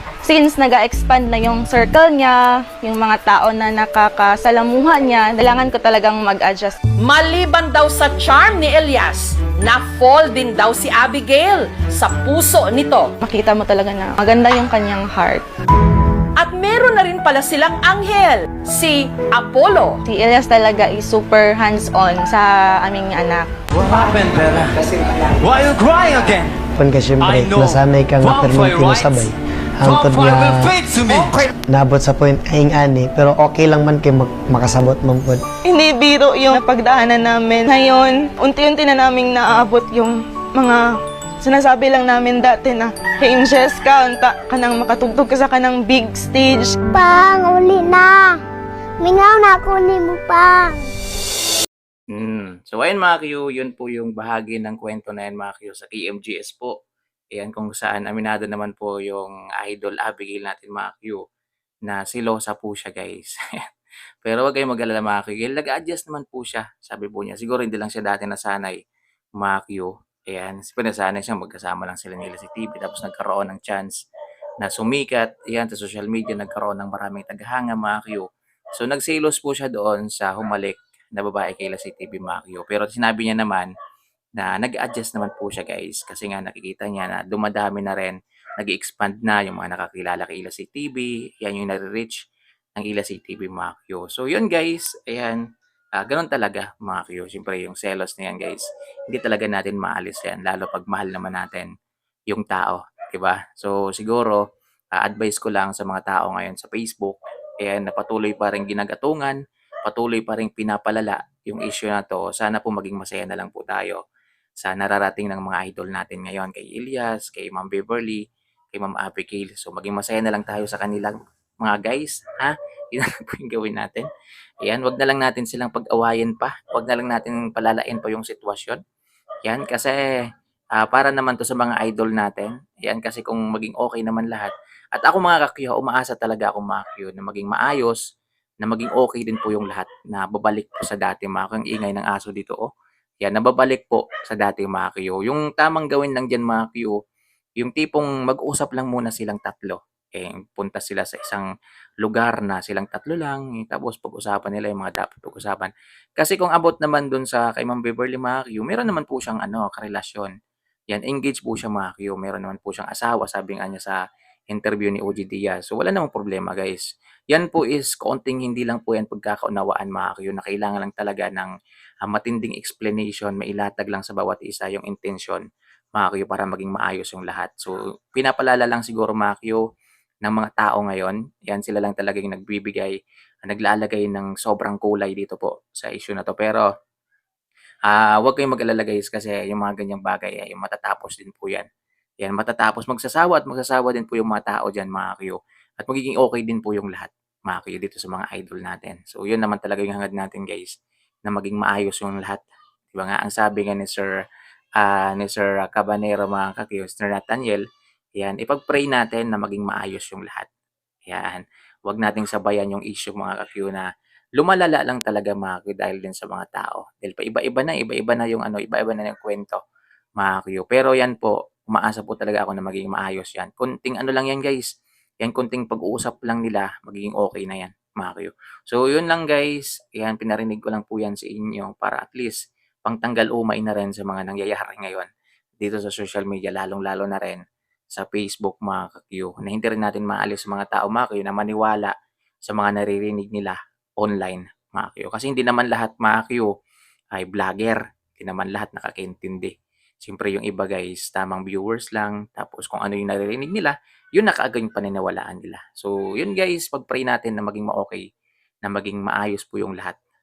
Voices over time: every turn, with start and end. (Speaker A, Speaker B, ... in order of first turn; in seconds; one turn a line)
Speaker A: 0.2-6.8
Speaker B: 7.0-13.1
Speaker A: 13.2-15.4
Speaker B: 16.4-20.0
Speaker A: 20.1-23.5
Speaker C: 23.7-26.5
Speaker D: 26.8-35.4
Speaker C: 27.2-29.1
Speaker C: 29.9-31.4
Speaker A: 35.6-40.8
Speaker A: 41.4-46.8
Speaker E: 46.9-48.4
Speaker E: 49.0-50.9
Speaker F: 52.1-56.7
Speaker F: 57.3-61.2
Speaker F: 61.9-63.4
Speaker F: 64.2-68.8
Speaker F: 69.4-73.9
Speaker F: 74.6-83.7
Speaker F: 84.4-92.2
Speaker F: 92.8-95.4
Speaker F: 96.0-101.7
Speaker F: 102.3-104.4
Speaker F: 104.9-114.0
Speaker F: 114.6-118.2
Speaker F: 118.7-124.0
Speaker F: 124.6-128.8
Speaker F: 129.4-130.0
Speaker F: 130.8-138.0
Speaker F: 138.6-142.7
Speaker F: 143.2-146.9
Speaker F: 147.6-151.4
Speaker F: 152.0-160.3
Speaker F: 160.9-164.0
Speaker F: 164.5-171.5
Speaker F: 172.0-175.4
Speaker F: 175.9-179.6
Speaker F: 180.2-186.7
Speaker F: 187.9-191.6
Speaker F: 192.2-200.7
Speaker F: 201.3-202.4
Speaker F: 202.9-204.1
Speaker F: 204.8-207.6
Speaker F: 208.2-210.5
Speaker F: 211.1-213.8
Speaker F: 214.4-219.6
Speaker F: 220.2-224.6
Speaker F: 225.2-235.1
Speaker F: 235.6-237.4
Speaker F: 237.9-241.9
Speaker F: 242.5-246.5
Speaker F: 247.1-258.0
Speaker F: 258.6-259.9